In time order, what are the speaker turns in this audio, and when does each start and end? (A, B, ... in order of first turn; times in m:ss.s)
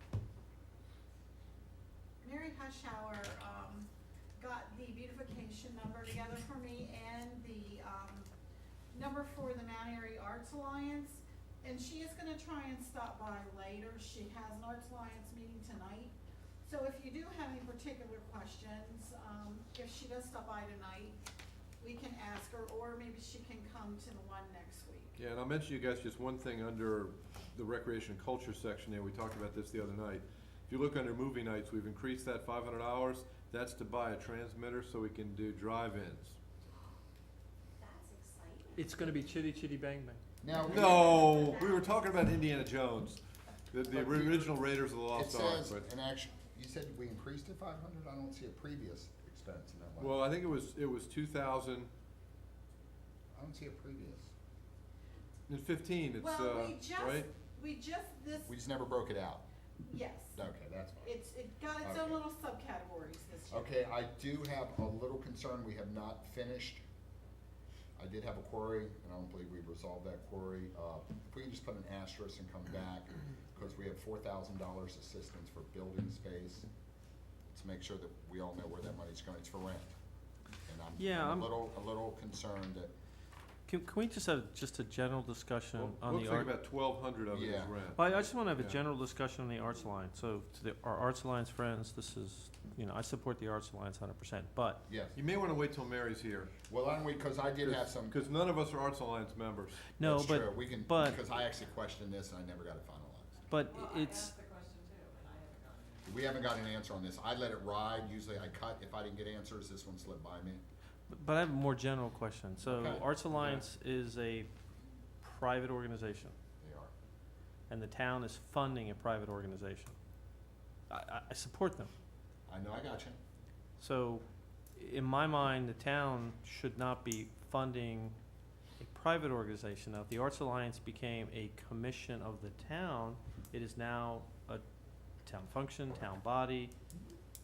0:02.2-0:08.3 A
0:08.9-0:21.2 A
0:21.8-0:25.1 A
0:25.2-0:36.4 B
0:37.8-0:39.2 C
0:38.7-0:40.2 D
0:40.4-0:41.7 E
0:40.7-0:45.8 B
0:40.8-0:42.2 C
0:43.9-0:44.6 E
0:45.1-0:50.2 E
0:50.0-0:51.9 B
0:53.3-0:54.3 E
0:55.5-0:57.3 B
0:56.2-0:58.5 A
0:58.5-0:59.4 E
0:59.8-1:00.4 A
1:00.3-1:01.1 E
1:01.0-1:03.7 A
1:01.8-1:02.2 E
1:03.5-1:06.8 E
1:08.0-1:16.7 E
1:17.5-1:20.0 E
1:20.6-1:22.9 E
1:21.0-1:21.5 D
1:23.6-1:26.5 D
1:25.8-1:28.8 B
1:27.3-1:27.8 E
1:27.9-1:34.8 D
1:34.9-1:35.2 E
1:35.1-1:36.5 B
1:36.6-1:38.2 E
1:37.6-1:39.8 B
1:40.0-1:41.2 D
1:40.0-1:43.4 E
1:43.5-1:44.3 D
1:43.6-1:46.3 F
1:46.0-1:50.6 E
1:51.1-1:54.5 D
1:52.6-1:53.4 E
1:55.2-1:56.3 D
1:56.6-1:56.9 E
1:57.7-2:00.0 D
2:00.9-2:01.9 D
2:02.5-2:03.2 E
2:03.8-2:08.2 D
2:08.8-2:14.6 D
2:15.2-2:16.7 D